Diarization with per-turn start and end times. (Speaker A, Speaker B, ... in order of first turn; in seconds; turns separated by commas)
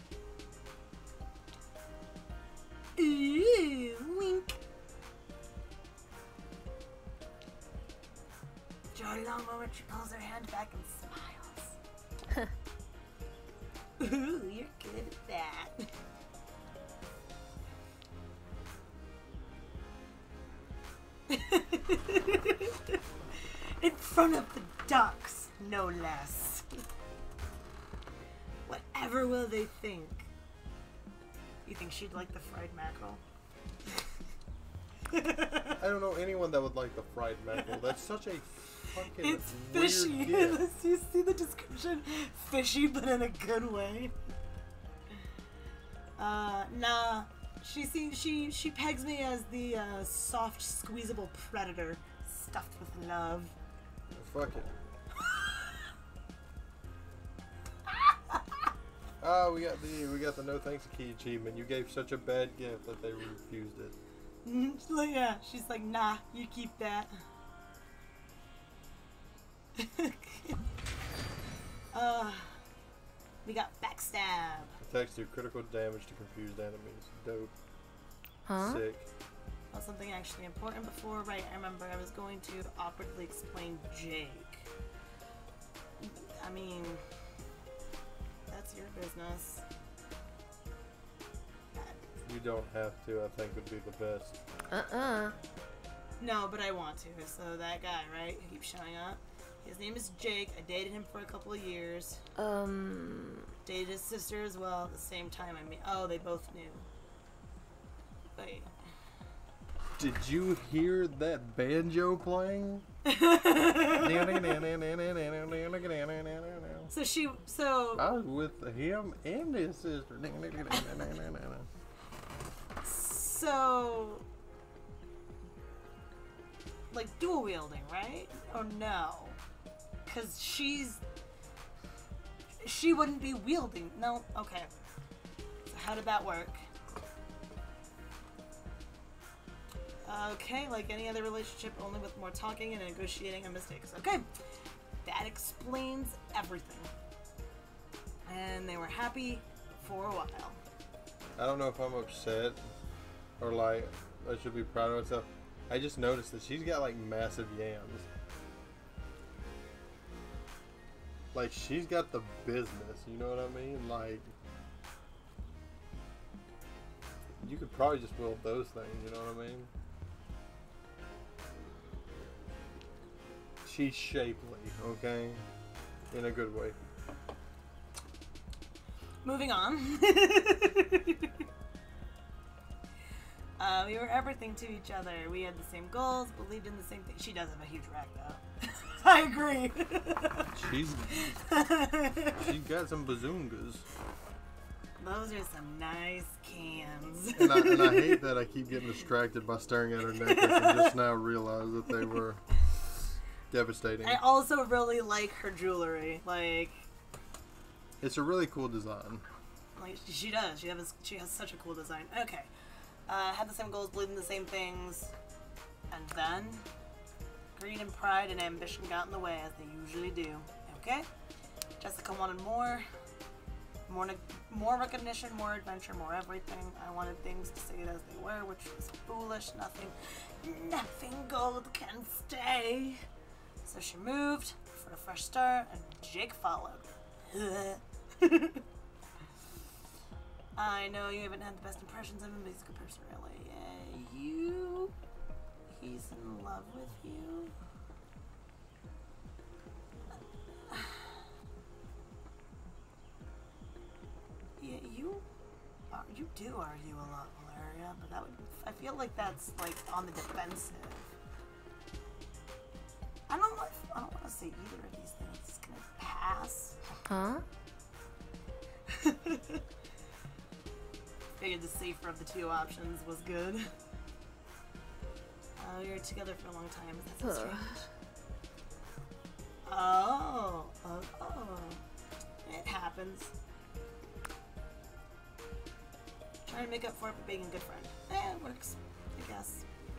Speaker A: 3.0-4.6, Speaker A: 8.9-11.8, Speaker A: 14.0-15.9, Speaker A: 21.3-26.7, Speaker A: 28.7-30.3, Speaker A: 31.6-33.2, Speaker A: 35.1-35.8, Speaker B: 35.8-40.6, Speaker A: 37.6-37.9, Speaker A: 38.9-44.1, Speaker A: 46.2-53.5, Speaker B: 54.1-54.7, Speaker A: 58.0-58.4, Speaker B: 59.2-64.0, Speaker A: 64.5-67.1, Speaker A: 69.8-70.6, Speaker A: 71.9-72.6, Speaker A: 73.4-74.8, Speaker B: 74.8-77.5, Speaker C: 78.5-78.8, Speaker B: 78.6-79.1, Speaker A: 79.7-84.7, Speaker A: 86.0-87.0, Speaker A: 88.5-89.6, Speaker A: 91.8-92.0, Speaker B: 92.2-94.4, Speaker C: 94.7-95.3, Speaker A: 96.2-102.2, Speaker C: 102.4-103.5, Speaker A: 103.6-106.9, Speaker A: 108.4-108.7, Speaker B: 110.0-112.9, Speaker A: 113.0-114.6, Speaker B: 113.9-116.9, Speaker A: 116.9-118.1, Speaker B: 118.0-121.7, Speaker A: 122.8-124.3, Speaker A: 126.9-129.4, Speaker A: 130.1-131.0, Speaker A: 132.6-134.7, Speaker A: 135.7-136.7, Speaker A: 140.1-144.3, Speaker A: 145.0-146.9, Speaker A: 148.3-150.6, Speaker B: 151.4-152.7, Speaker B: 153.4-158.1, Speaker B: 161.3-164.3, Speaker B: 167.4-169.7, Speaker B: 173.6-175.5, Speaker B: 176.1-176.8, Speaker A: 179.2-181.4, Speaker A: 183.6-190.6, Speaker B: 190.5-191.4, Speaker A: 191.1-192.5, Speaker B: 192.4-193.9, Speaker A: 195.0-198.3, Speaker B: 197.4-202.4, Speaker A: 200.2-200.9, Speaker B: 203.5-204.2, Speaker A: 204.0-206.9, Speaker B: 208.0-209.2, Speaker A: 209.8-212.5, Speaker A: 213.1-215.1, Speaker A: 215.9-216.7, Speaker A: 217.6-221.1, Speaker A: 221.8-222.9, Speaker A: 223.9-233.0, Speaker A: 233.7-238.6, Speaker A: 240.6-244.9, Speaker A: 245.7-247.5, Speaker A: 250.7-251.1, Speaker A: 254.6-255.3, Speaker A: 255.9-261.1, Speaker A: 263.3-266.8, Speaker C: 267.1-267.4, Speaker A: 268.9-269.6, Speaker A: 271.4-273.7, Speaker A: 275.6-277.9, Speaker C: 277.2-277.8, Speaker A: 279.7-281.8, Speaker A: 282.4-283.3, Speaker A: 286.5-289.7